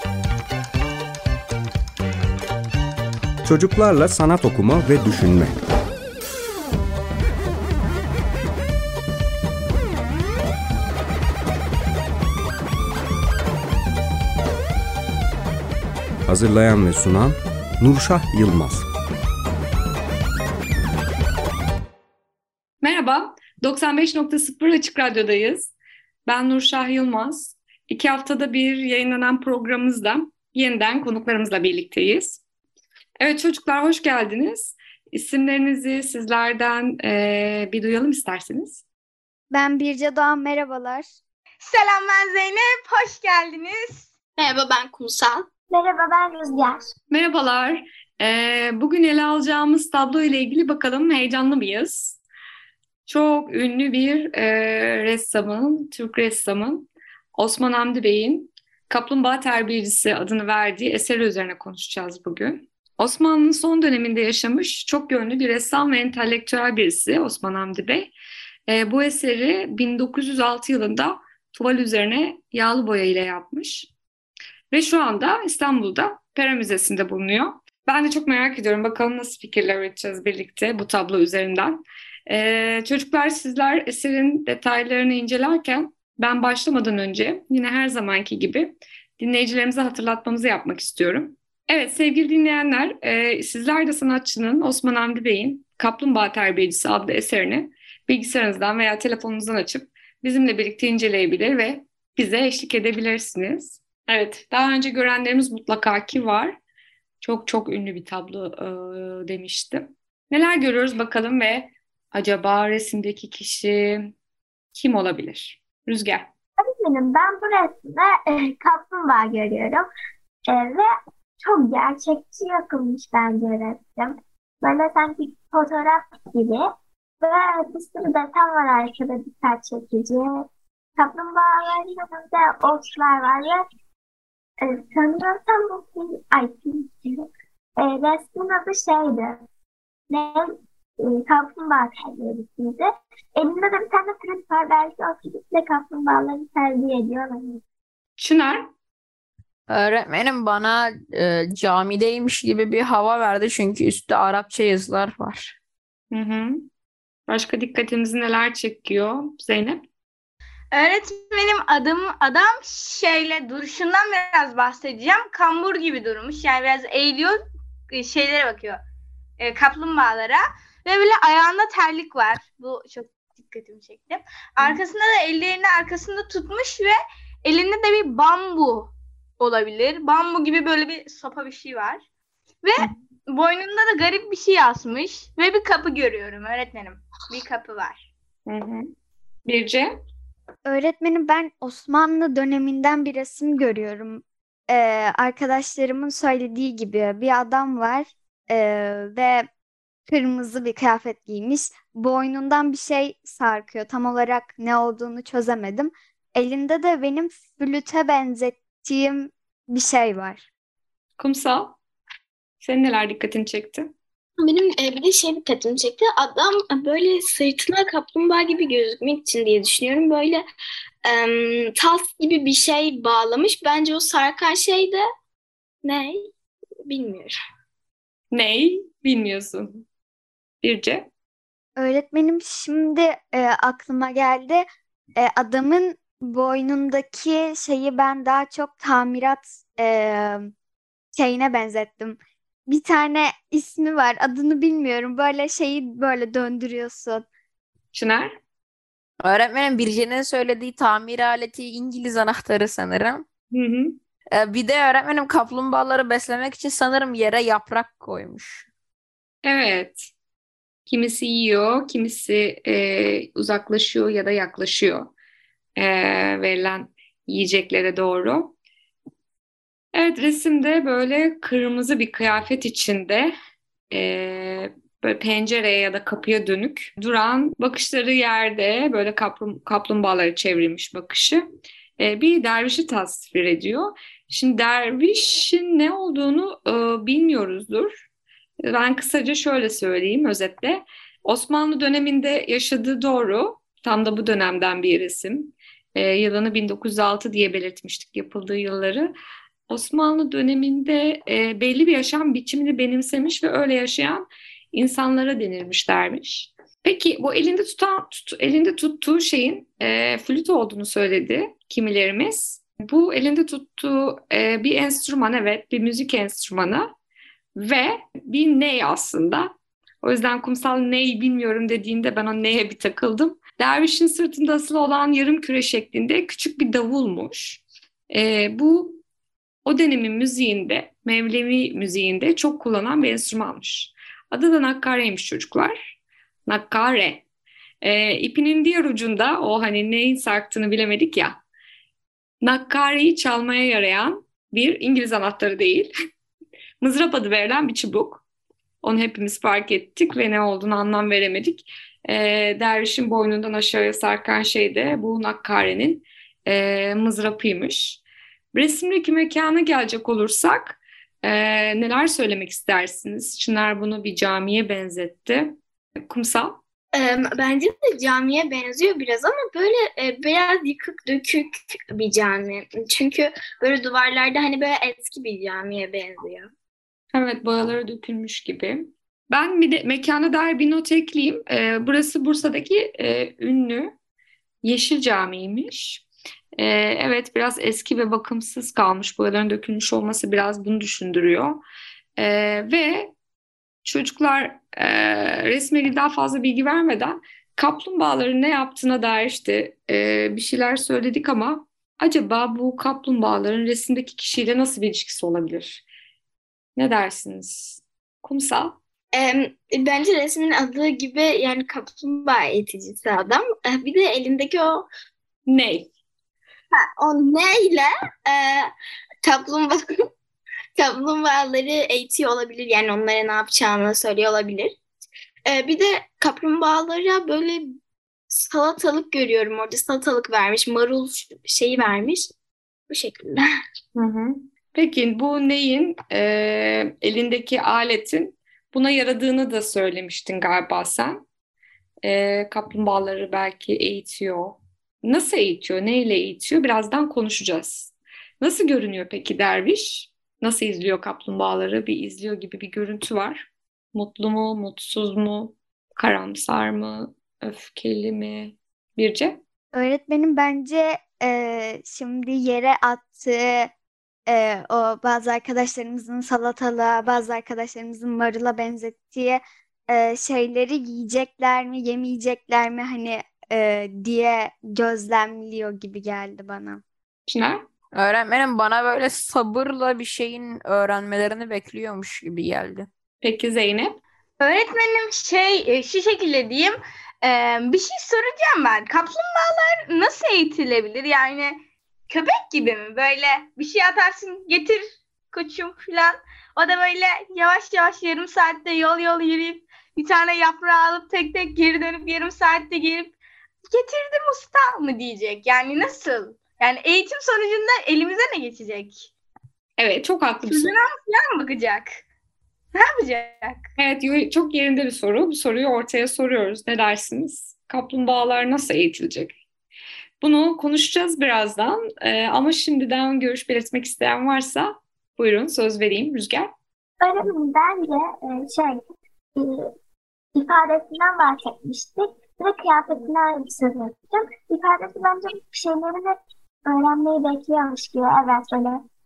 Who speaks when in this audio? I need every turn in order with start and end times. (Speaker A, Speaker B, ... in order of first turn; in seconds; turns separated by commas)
Speaker A: 3.4-5.7, Speaker A: 16.3-18.9, Speaker B: 22.8-25.7, Speaker B: 26.3-32.4, Speaker B: 33.2-38.8, Speaker C: 39.5-41.1, Speaker D: 41.6-44.1, Speaker E: 44.4-45.5, Speaker F: 45.7-46.9, Speaker B: 47.1-52.2, Speaker B: 53.1-68.1, Speaker B: 68.7-73.9, Speaker B: 74.7-106.6, Speaker B: 107.2-114.1, Speaker B: 114.7-116.3, Speaker F: 116.6-119.8, Speaker F: 120.5-120.9, Speaker F: 121.4-126.6, Speaker F: 127.2-130.5, Speaker F: 131.0-133.7, Speaker F: 134.6-137.3, Speaker F: 137.8-139.4, Speaker F: 140.1-147.6, Speaker B: 148.2-148.7, Speaker G: 149.7-155.6, Speaker B: 156.1-156.7, Speaker B: 157.3-159.8, Speaker D: 160.7-167.4, Speaker D: 167.9-168.8, Speaker D: 169.4-182.0, Speaker D: 182.6-188.1, Speaker B: 188.5-188.9, Speaker B: 189.4-190.0, Speaker C: 190.7-199.5, Speaker C: 200.1-210.5, Speaker B: 211.2-211.8, Speaker B: 212.6-213.9, Speaker E: 214.4-220.4, Speaker E: 221.1-225.0, Speaker E: 225.8-226.3, Speaker E: 226.9-227.4, Speaker B: 228.3-229.8, Speaker B: 230.6-231.1, Speaker C: 231.8-240.5, Speaker C: 241.1-247.3, Speaker B: 247.9-248.3, Speaker G: 249.2-253.2, Speaker B: 253.5-254.0, Speaker G: 254.3-258.7, Speaker B: 259.4-260.1, Speaker B: 260.9-265.1, Speaker B: 265.8-268.5, Speaker B: 269.9-273.3, Speaker B: 273.9-281.4, Speaker B: 282.0-288.0, Speaker B: 288.6-299.1, Speaker B: 299.7-316.9, Speaker B: 317.6-329.0, Speaker B: 329.6-335.9, Speaker B: 336.5-337.2, Speaker B: 337.8-341.4, Speaker B: 342.4-345.9, Speaker B: 346.8-348.2, Speaker B: 348.8-358.0, Speaker B: 358.5-365.6, Speaker B: 366.1-366.6, Speaker E: 366.9-376.5, Speaker B: 377.1-383.9, Speaker B: 384.6-386.0, Speaker B: 386.6-391.6, Speaker B: 392.2-393.1, Speaker B: 393.8-405.9, Speaker B: 406.8-408.8, Speaker E: 409.1-414.9, Speaker B: 415.5-415.9, Speaker E: 416.7-418.7, Speaker E: 419.2-419.8, Speaker E: 420.8-424.8, Speaker E: 425.5-427.8, Speaker E: 428.3-432.3, Speaker E: 432.9-433.4, Speaker B: 433.9-441.2, Speaker B: 442.0-459.4, Speaker C: 459.7-463.7, Speaker C: 464.3-476.8, Speaker B: 477.3-477.6, Speaker G: 477.9-482.9, Speaker B: 483.2-484.0, Speaker D: 484.4-503.1, Speaker D: 503.7-509.1, Speaker B: 509.8-510.7, Speaker D: 510.5-512.0, Speaker D: 512.7-513.6, Speaker B: 513.8-519.3, Speaker B: 520.2-526.5, Speaker F: 527.0-528.8, Speaker F: 529.4-529.7, Speaker F: 530.4-538.8